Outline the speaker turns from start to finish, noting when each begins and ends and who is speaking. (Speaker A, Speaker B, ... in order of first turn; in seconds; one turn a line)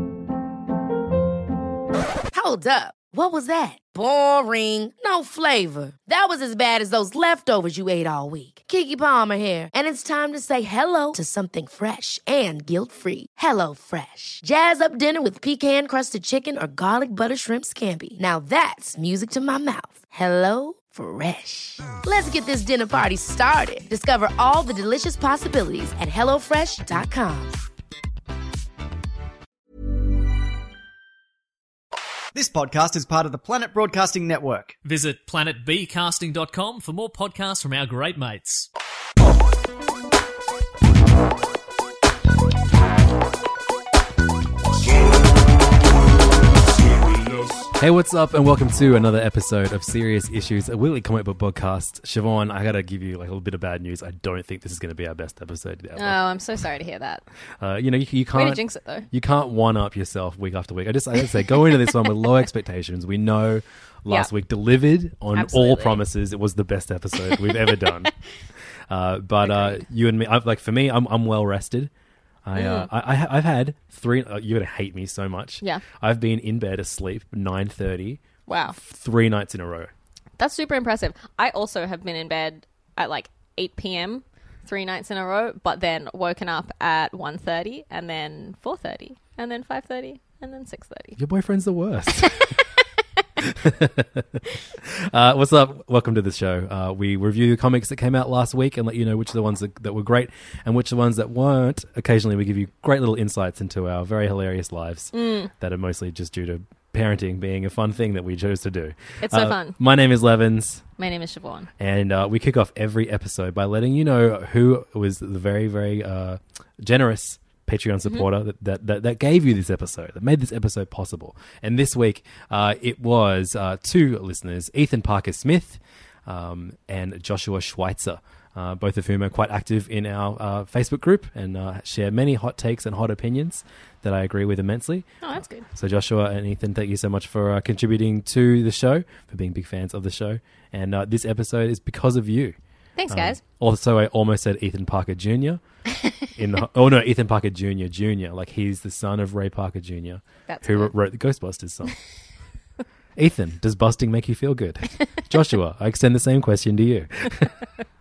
Speaker A: 2.3-27.6
Speaker B: 32.3-34.8
Speaker C: 34.8-38.7
Speaker D: 47.8-56.2
Speaker E: 56.0-57.2
Speaker D: 57.6-68.1
Speaker E: 58.3-59.1
Speaker E: 65.3-66.0
Speaker E: 67.3-68.0
Speaker D: 68.9-71.9
Speaker E: 69.5-69.8
Speaker D: 72.5-78.2
Speaker E: 72.5-72.9
Speaker E: 78.5-78.8
Speaker D: 78.8-79.9
Speaker E: 80.4-91.2
Speaker D: 91.2-92.4
Speaker E: 92.2-92.7
Speaker D: 93.4-110.8
Speaker E: 105.1-105.5
Speaker E: 109.2-109.8
Speaker E: 111.0-111.7
Speaker D: 111.8-135.1
Speaker E: 135.2-135.7
Speaker D: 135.7-142.6
Speaker E: 143.0-143.4
Speaker D: 143.1-145.6
Speaker D: 146.3-151.9
Speaker E: 150.5-150.9
Speaker D: 153.2-157.5